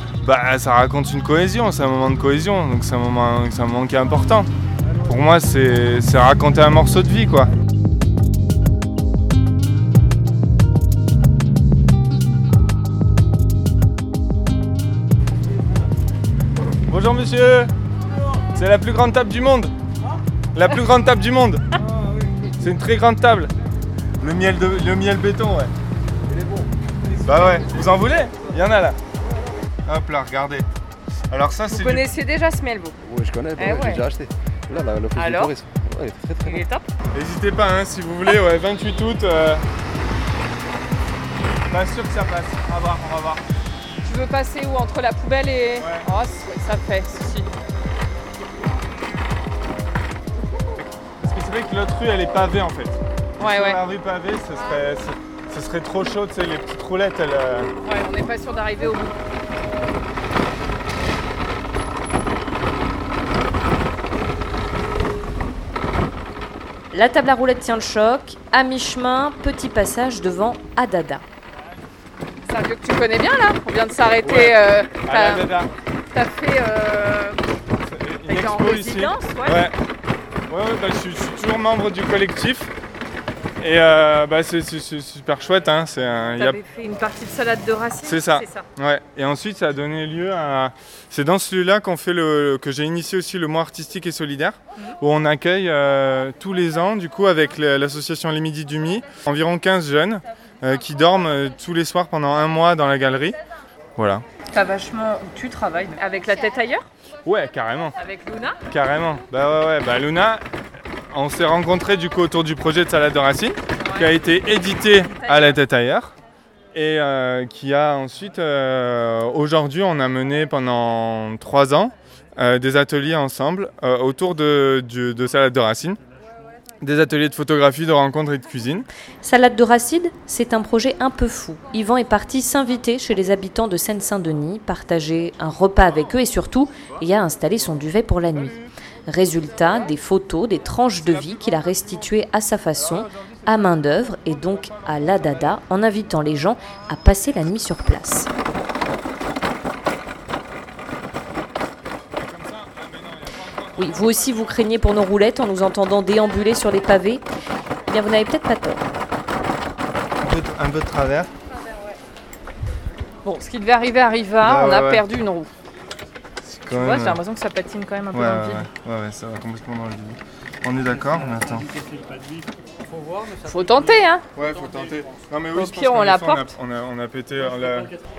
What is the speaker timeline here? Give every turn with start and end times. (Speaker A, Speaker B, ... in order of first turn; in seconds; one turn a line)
Speaker A: 0.2-4.5
Speaker A: 5.1-7.5
Speaker A: 16.9-17.7
Speaker A: 18.6-19.7
Speaker A: 20.5-21.6
Speaker A: 22.6-23.5
Speaker A: 24.2-25.7
Speaker A: 27.2-29.0
Speaker A: 29.9-30.7
Speaker A: 31.3-32.1
Speaker B: 31.7-33.0
Speaker C: 33.1-36.4
Speaker B: 33.6-34.0
Speaker B: 35.1-35.5
Speaker B: 36.4-36.9
Speaker A: 37.1-39.7
Speaker A: 41.7-43.4
Speaker B: 44.0-47.5
Speaker A: 45.8-46.1
Speaker A: 51.2-57.7
Speaker B: 53.4-53.8
Speaker B: 57.8-59.2
Speaker D: 66.9-71.2
Speaker B: 72.5-75.5
Speaker A: 74.2-75.7
Speaker B: 76.1-77.4
Speaker A: 77.8-79.8
Speaker B: 78.3-79.7
Speaker A: 80.5-82.7
Speaker A: 83.6-86.6
Speaker B: 86.4-88.7
Speaker A: 88.0-103.4
Speaker A: 104.0-104.2
Speaker B: 104.5-106.9
Speaker A: 107.2-108.0
Speaker B: 108.0-108.6
Speaker A: 108.7-110.4
Speaker A: 111.1-116.2
Speaker B: 113.8-114.1
Speaker B: 114.8-115.6
Speaker A: 116.7-126.0
Speaker A: 126.8-128.9
Speaker D: 129.2-148.3
Speaker A: 152.2-154.6
Speaker D: 153.8-157.2
Speaker D: 157.9-158.8
Speaker A: 160.2-161.3
Speaker B: 163.2-165.5
Speaker A: 164.4-165.0
Speaker A: 166.4-167.2
Speaker B: 166.8-168.7
Speaker A: 168.1-171.8
Speaker B: 173.4-174.2
Speaker A: 174.3-177.9
Speaker B: 175.5-176.6